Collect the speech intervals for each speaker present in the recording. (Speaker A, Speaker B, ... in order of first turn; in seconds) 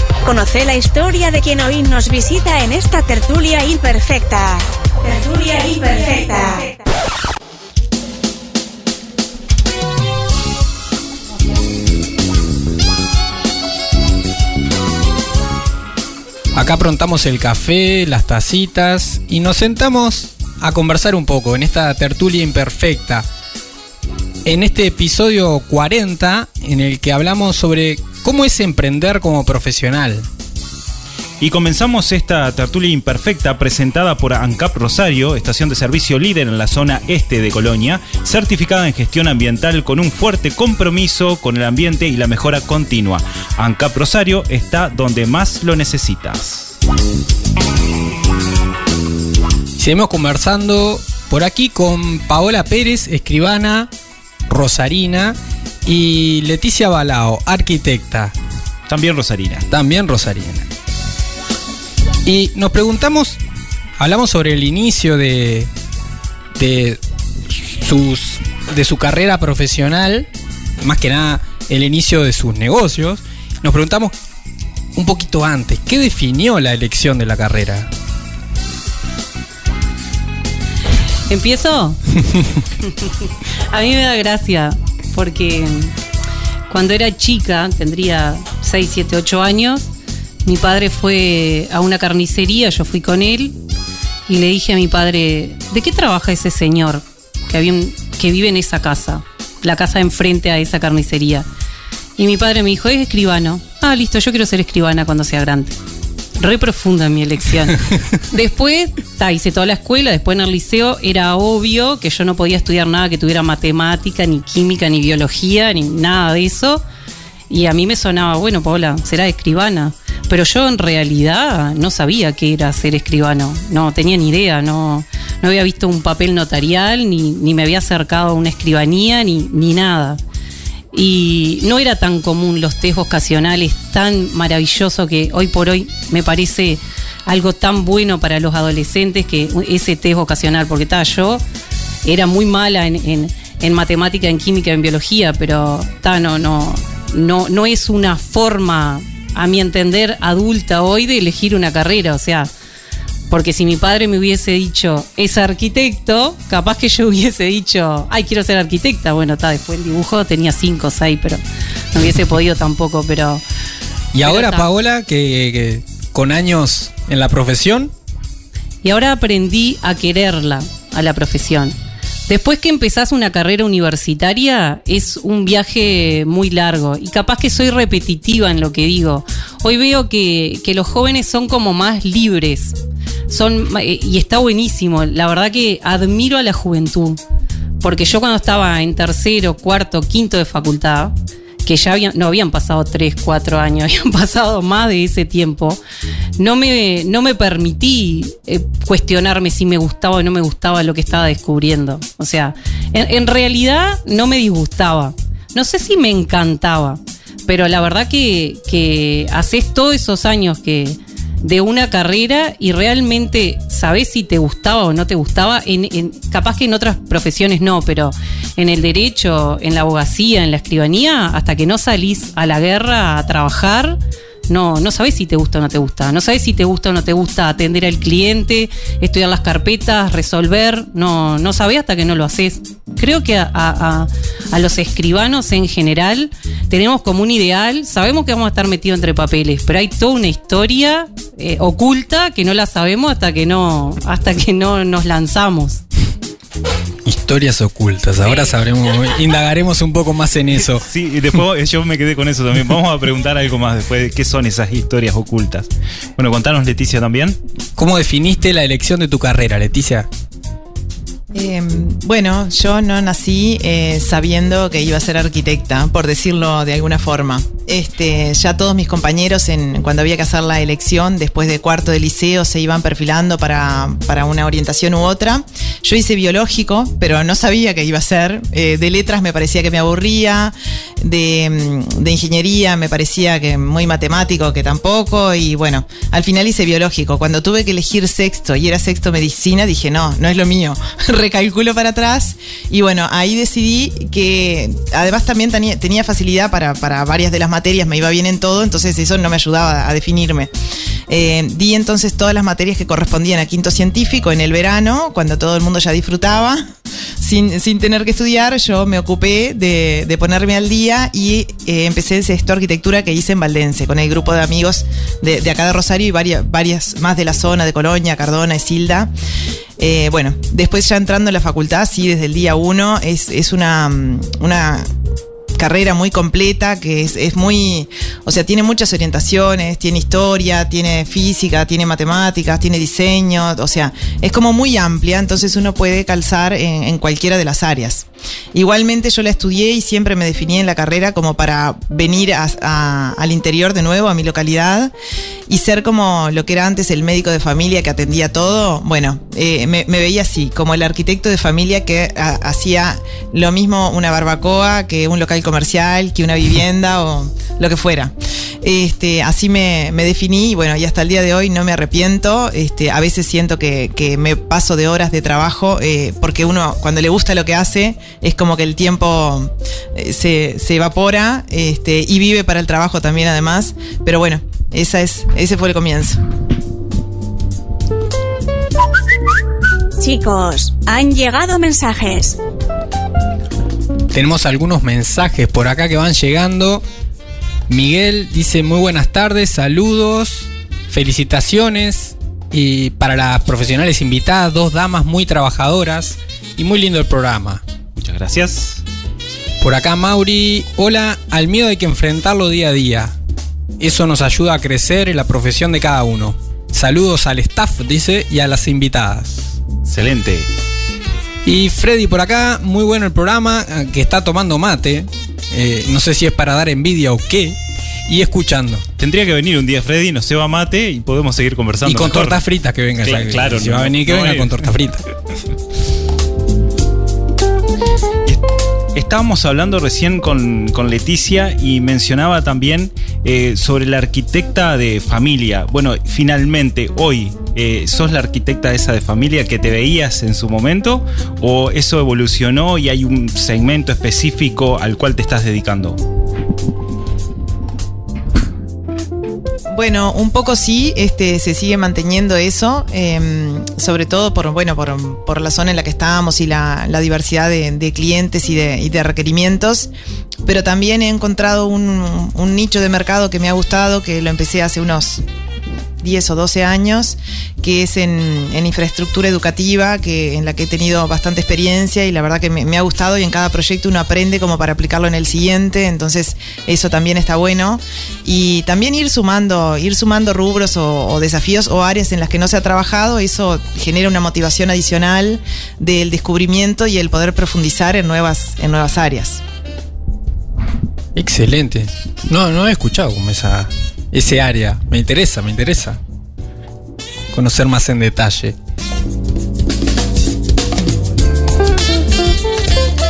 Speaker A: 0.2-6.8, 380.0-382.4
Speaker B: 16.5-23.2, 24.4-30.2, 49.8-53.9, 54.5-58.3, 59.7-60.7, 62.2-63.4, 64.0-65.7, 66.5-70.3, 70.8-74.1, 74.9-77.9, 164.1-167.9, 247.0-250.9, 257.8-260.1, 384.1-386.8, 387.7-397.6, 399.6-403.1, 403.8-409.5, 411.4-418.8, 421.8-425.1, 491.1-496.0, 497.3-498.6
Speaker C: 31.4-46.8, 58.9-59.6, 250.7-257.4, 398.0-398.8, 409.8-410.5, 419.0-422.4, 423.0-424.7, 428.9-446.0
Speaker D: 81.3-82.0, 82.8-83.1, 83.7-85.9, 86.7-89.9, 90.4-93.6, 94.3-101.5, 102.2-105.8, 106.4-116.8, 117.5-130.2, 130.9-141.4, 142.0-152.5, 153.3-161.4, 161.9-163.4, 164.2-164.7, 168.8-171.7, 172.3-182.8, 183.3-187.2, 187.8-191.1, 191.6-195.8, 196.4-224.0, 224.5-245.8
Speaker E: 261.3-300.5, 301.1-306.6, 307.2-319.1, 319.8-324.9, 325.6-344.9, 345.5-376.2, 449.7-459.9, 460.4-465.2, 466.0-489.4